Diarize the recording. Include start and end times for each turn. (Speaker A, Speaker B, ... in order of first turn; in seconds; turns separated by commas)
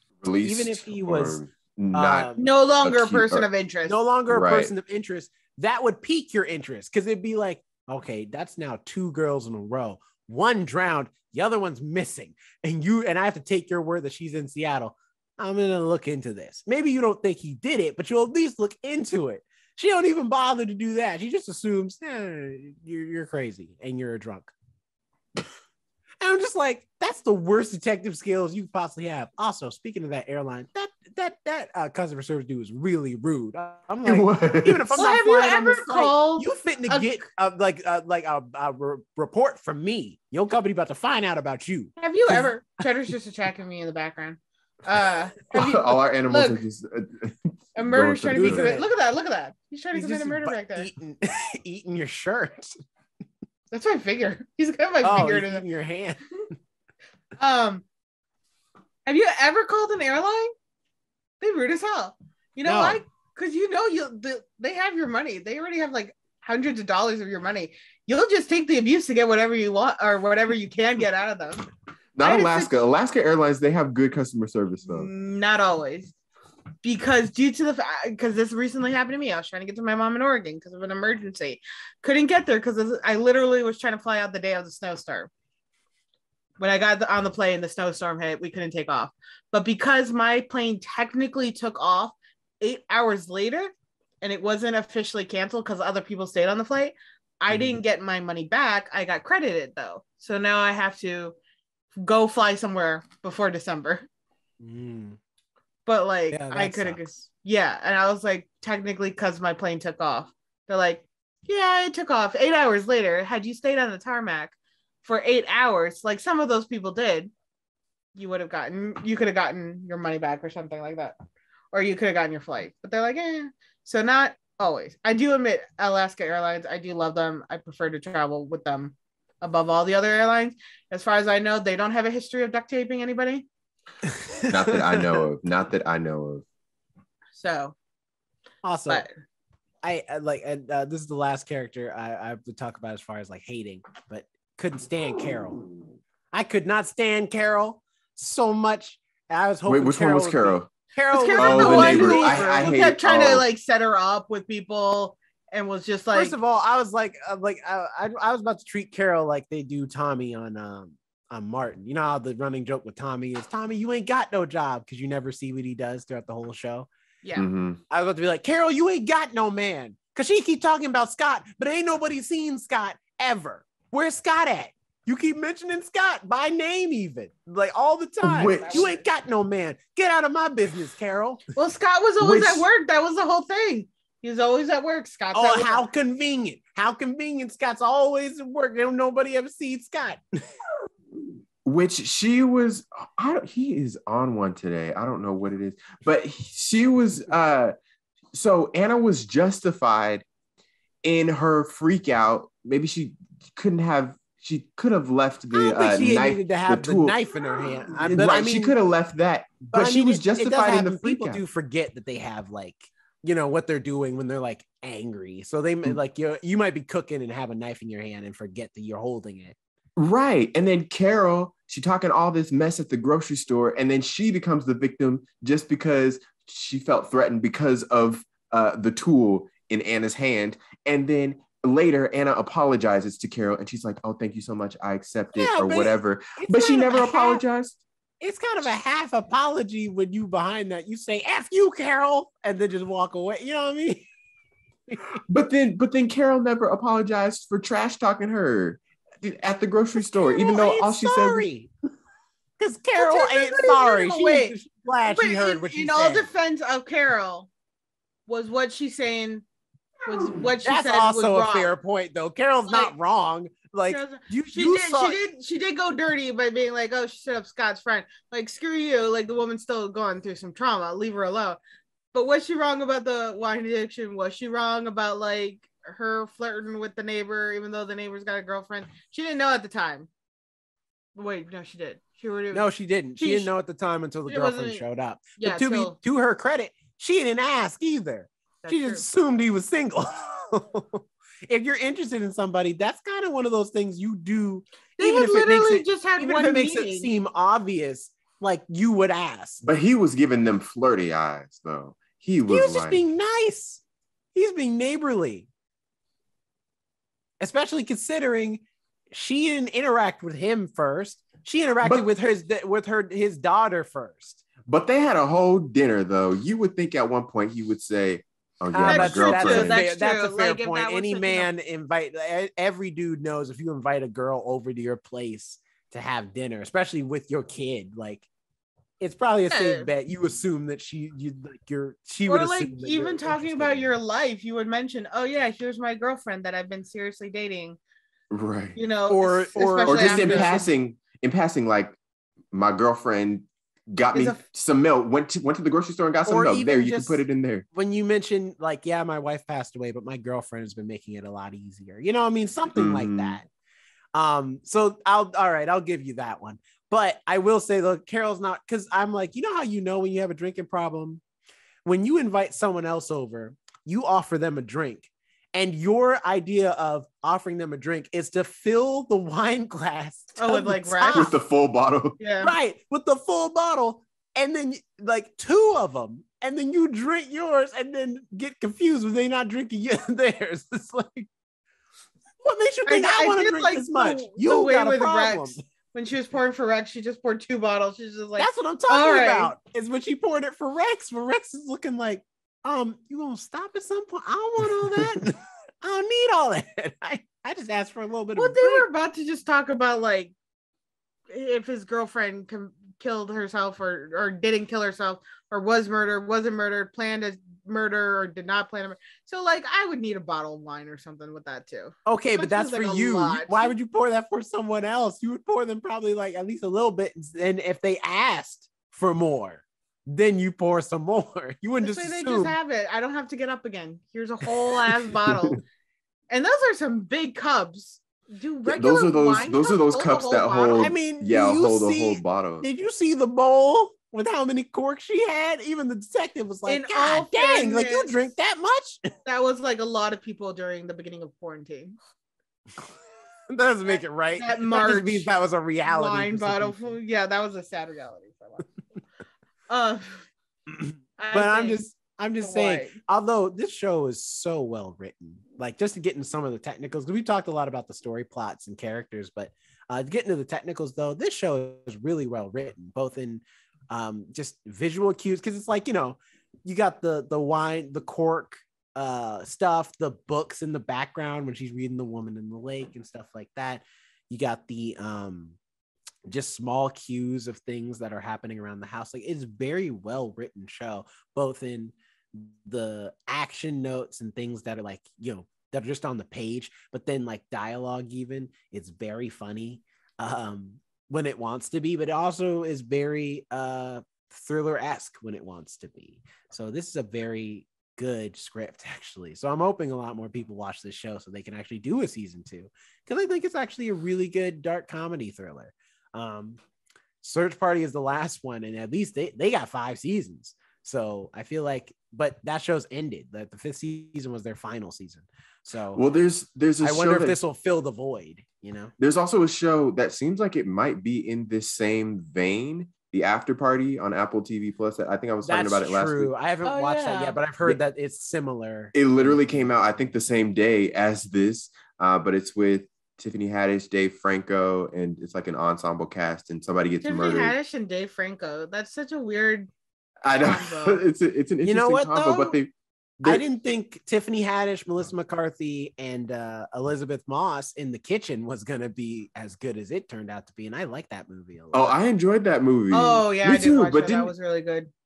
Speaker A: 0.2-2.3, Speaker B: 0.4-1.4, Speaker B: 1.9-2.5, Speaker C: 2.4-4.0, Speaker A: 2.8-3.5, Speaker B: 3.9-24.5, Speaker A: 4.3-4.7, Speaker B: 26.2-41.9, Speaker A: 34.0-34.9, Speaker C: 34.9-37.2, Speaker C: 42.0-46.6, Speaker A: 45.5-48.7, Speaker C: 47.8-50.9, Speaker B: 48.4-48.9, Speaker B: 49.9-52.8, Speaker C: 53.7-55.6, Speaker B: 55.0-56.2, Speaker C: 57.4-57.8, Speaker C: 59.1-60.5, Speaker C: 61.4-71.7, Speaker B: 62.7-63.0, Speaker A: 72.2-75.1, Speaker C: 72.2-72.8, Speaker C: 74.9-76.1, Speaker C: 76.8-85.3, Speaker C: 86.6-101.4, Speaker B: 97.5-97.8, Speaker C: 102.0-104.0, Speaker B: 104.6-105.2, Speaker C: 105.9-117.3, Speaker B: 106.3-107.2, Speaker C: 118.1-121.1, Speaker C: 121.7-133.4, Speaker B: 134.0-135.2, Speaker A: 134.5-136.4, Speaker C: 137.4-137.7, Speaker B: 138.6-139.1, Speaker B: 139.8-145.7, Speaker B: 146.3-152.8, Speaker A: 149.7-150.7, Speaker C: 151.1-156.3, Speaker A: 151.3-153.4, Speaker B: 156.1-166.9, Speaker A: 167.4-167.8, Speaker B: 167.9-181.4, Speaker A: 178.2-178.9, Speaker C: 178.6-178.9, Speaker C: 181.5-185.8, Speaker A: 182.2-182.7, Speaker B: 185.3-190.2, Speaker A: 191.6-197.7, Speaker A: 198.3-200.2, Speaker A: 201.1-207.2, Speaker B: 205.5-208.7, Speaker A: 208.0-211.4, Speaker B: 209.7-219.6, Speaker A: 219.9-237.8, Speaker B: 235.3-237.4, Speaker B: 238.2-244.1, Speaker B: 244.9-245.1, Speaker A: 245.3-251.5, Speaker B: 250.2-251.7, Speaker B: 252.6-256.3, Speaker C: 253.0-257.5, Speaker C: 258.3-259.4, Speaker C: 260.1-261.7, Speaker B: 260.6-265.2, Speaker C: 263.9-271.6, Speaker C: 272.1-280.1, Speaker C: 281.1-283.5, Speaker B: 282.5-299.6, Speaker C: 284.3-284.8, Speaker C: 285.4-285.9, Speaker C: 288.6-289.1, Speaker C: 295.0-297.1, Speaker A: 299.6-303.0, Speaker B: 302.5-303.8, Speaker B: 304.3-305.5, Speaker B: 307.4-314.4, Speaker A: 314.7-319.8, Speaker B: 318.7-328.3, Speaker C: 318.9-321.5, Speaker B: 329.0-333.9, Speaker C: 329.5-329.9, Speaker C: 332.3-337.8, Speaker A: 338.3-338.8, Speaker C: 338.8-340.6, Speaker B: 339.1-340.6, Speaker A: 339.9-341.9, Speaker A: 342.5-347.7, Speaker C: 344.1-344.4, Speaker B: 346.3-353.5, Speaker A: 352.7-353.4, Speaker B: 354.1-361.2, Speaker B: 361.9-371.3, Speaker C: 370.4-371.3, Speaker A: 371.1-372.2, Speaker C: 372.2-372.5, Speaker B: 372.4-381.3, Speaker B: 382.4-385.6, Speaker C: 382.9-389.5, Speaker B: 388.4-398.9, Speaker C: 398.4-400.3, Speaker C: 401.3-413.7, Speaker B: 412.1-422.6, Speaker C: 421.8-425.6, Speaker C: 426.3-430.9, Speaker A: 428.7-432.7, Speaker B: 430.7-439.1, Speaker C: 436.7-438.2, Speaker C: 439.3-441.9, Speaker B: 443.5-446.9, Speaker C: 443.9-445.3, Speaker C: 445.8-448.7, Speaker C: 449.7-450.3, Speaker B: 450.7-475.6, Speaker C: 451.2-451.8, Speaker C: 452.4-453.0, Speaker B: 476.3-506.6, Speaker B: 507.2-516.0, Speaker A: 516.0-517.4, Speaker B: 516.8-518.9, Speaker A: 519.0-526.3, Speaker B: 525.4-529.7, Speaker C: 526.6-527.4, Speaker A: 528.9-537.5, Speaker C: 537.0-539.7, Speaker A: 540.2-543.4, Speaker C: 540.4-541.0, Speaker B: 541.6-542.6, Speaker B: 543.2-552.0, Speaker A: 551.7-554.3, Speaker C: 552.9-554.9